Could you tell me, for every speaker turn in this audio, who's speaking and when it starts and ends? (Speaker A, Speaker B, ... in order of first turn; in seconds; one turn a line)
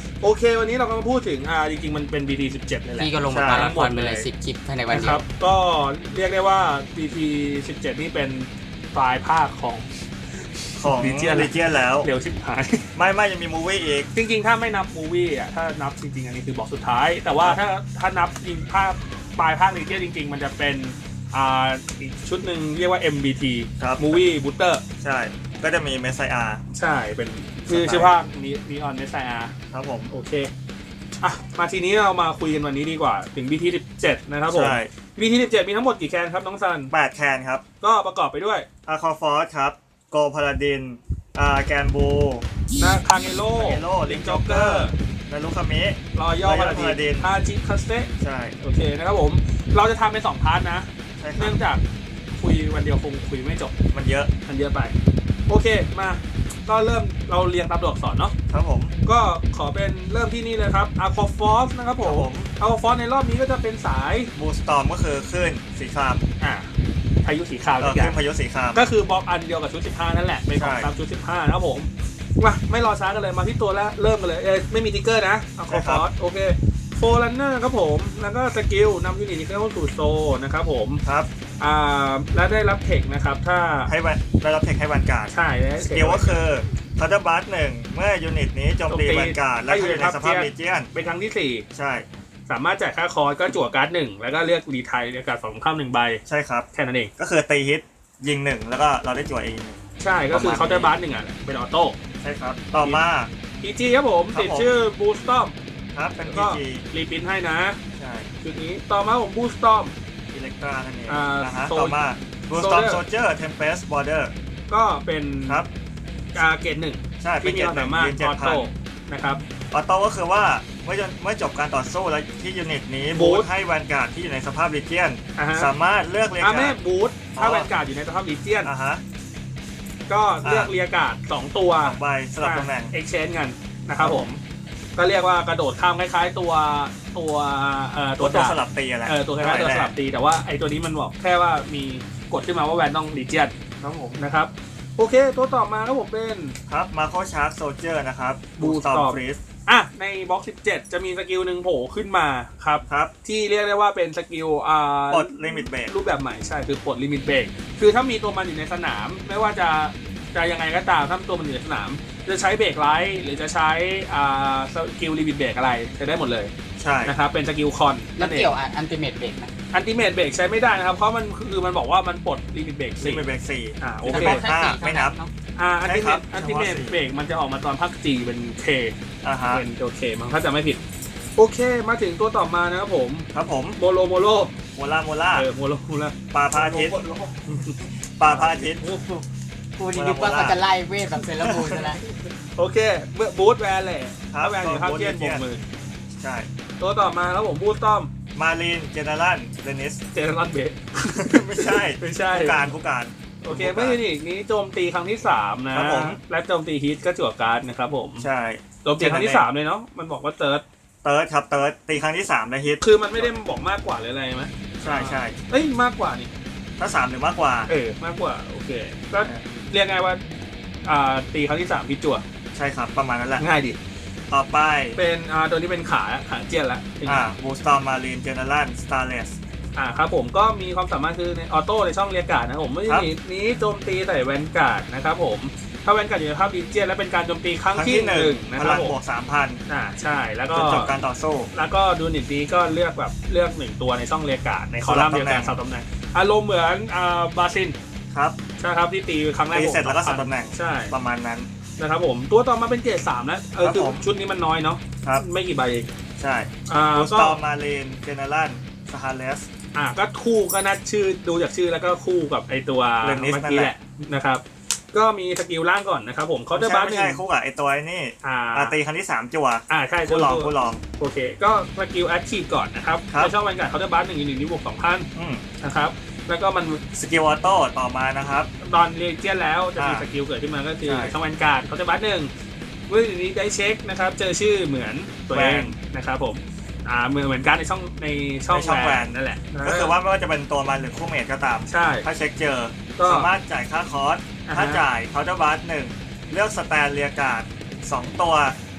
Speaker A: 0.2-4.3
Speaker B: 3.0-5.2
Speaker C: 3.3-3.7
Speaker A: 4.9-9.9
Speaker A: 10.6-12.9
Speaker C: 10.8-12.1
Speaker C: 13.0-14.1
Speaker A: 14.1-24.8
Speaker C: 23.8-24.2
Speaker C: 25.0-26.6
Speaker A: 26.7-29.5
Speaker C: 27.7-28.2
Speaker C: 29.7-30.1
Speaker A: 30.1-30.5
Speaker A: 31.2-36.9
Speaker C: 34.5-34.9
Speaker C: 36.9-37.6
Speaker A: 37.8-38.7
Speaker C: 38.9-42.5
Speaker A: 42.8-45.0
Speaker C: 43.4-47.3
Speaker A: 46.1-53.8
Speaker C: 48.2-48.6
Speaker C: 51.2-51.6
Speaker C: 53.9-54.3
Speaker A: 54.5-55.0
Speaker A: 55.5-58.3
Speaker C: 58.5-58.9
Speaker A: 59.0-64.3
Speaker C: 62.0-62.5
Speaker C: 64.4-66.2
Speaker A: 66.4-66.7
Speaker A: 67.2-68.2
Speaker C: 67.8-68.8
Speaker A: 68.7-81.0
Speaker C: 70.5-70.9
Speaker C: 75.7-76.0
Speaker A: 81.6-83.9
Speaker C: 83.9-90.9
Speaker A: 85.3-86.4
Speaker A: 88.9-91.7
Speaker C: 91.7-92.1
Speaker A: 92.5-96.2
Speaker C: 96.3-96.7
Speaker A: 96.7-97.1
Speaker C: 97.2-99.8
Speaker A: 100.0-102.0
Speaker C: 100.3-100.9
Speaker C: 102.2-103.3
Speaker A: 103.6-105.5
Speaker C: 104.3-104.7
Speaker C: 106.0-106.8
Speaker A: 106.3-107.8
Speaker C: 108.0-108.3
Speaker A: 108.4-109.9
Speaker C: 110.3-114.3
Speaker A: 111.1-112.0
Speaker A: 112.6-113.0
Speaker A: 114.7-115.6
Speaker A: 116.3-119.4
Speaker C: 117.2-118.7
Speaker C: 119.7-126.8
Speaker A: 123.1-123.5
Speaker A: 125.4-125.7
Speaker A: 126.4-128.7
Speaker C: 127.4-127.7
Speaker C: 128.6-129.0
Speaker A: 130.1-134.3
Speaker C: 130.4-130.7
Speaker C: 131.8-132.9
Speaker C: 134.0-134.4
Speaker A: 135.0-143.5
Speaker C: 138.2-139.9
Speaker C: 143.8-144.2
Speaker A: 144.2-146.6
Speaker C: 146.7-149.4
Speaker A: 148.6-166.5
Speaker C: 155.1-155.9
Speaker C: 166.8-167.2
Speaker A: 167.1-168.5
Speaker B: 168.2-169.5
Speaker A: 169.7-173.3
Speaker C: 173.0-175.2
Speaker A: 173.8-174.4
Speaker B: 174.1-175.3
Speaker A: 175.6-179.0
Speaker C: 175.8-176.9
Speaker C: 179.2-179.7
Speaker A: 179.5-180.8
Speaker A: 181.4-184.5
Speaker C: 183.3-183.8
Speaker C: 184.8-185.5
Speaker A: 185.3-189.2
Speaker C: 186.3-187.0
Speaker C: 188.2-188.8
Speaker B: 189.8-192.0
Speaker C: 189.9-190.6
Speaker C: 191.4-191.7
Speaker A: 192.0-195.7
Speaker C: 194.3-195.4
Speaker C: 196.2-196.5
Speaker A: 196.8-198.1
Speaker C: 198.3-200.0
Speaker A: 200.1-202.7
Speaker C: 201.1-204.0
Speaker A: 203.4-208.3
Speaker C: 205.7-206.2
Speaker C: 208.2-209.5
Speaker A: 208.8-210.6
Speaker C: 211.0-213.4
Speaker A: 212.8-216.3
Speaker C: 214.8-215.4
Speaker C: 216.8-217.7
Speaker A: 217.7-220.2
Speaker A: 220.8-222.2
Speaker C: 222.6-223.4
Speaker A: 223.4-223.8
Speaker C: 224.3-225.0
Speaker A: 225.0-227.3
Speaker C: 227.1-229.4
Speaker A: 229.8-238.9
Speaker C: 237.7-239.6
Speaker A: 239.7-240.9
Speaker C: 240.5-241.5
Speaker A: 241.5-247.8
Speaker C: 244.8-245.6
Speaker C: 248.1-248.4
Speaker A: 248.6-250.9
Speaker C: 249.5-251.5
Speaker A: 251.8-255.9
Speaker C: 253.6-254.1
Speaker C: 256.2-259.5
Speaker A: 256.7-257.4
Speaker A: 259.8-267.2
Speaker C: 263.0-263.7
Speaker C: 266.5-270.8
Speaker A: 268.2-268.8
Speaker A: 269.7-275.1
Speaker C: 275.1-275.4
Speaker A: 275.6-276.8
Speaker C: 276.9-278.5
Speaker A: 278.6-282.3
Speaker C: 279.8-280.1
Speaker C: 280.9-281.1
Speaker A: 282.9-289.9
Speaker C: 285.3-285.7
Speaker C: 288.5-298.6
Speaker A: 291.7-292.1
Speaker A: 293.0-293.3
Speaker A: 294.4-294.9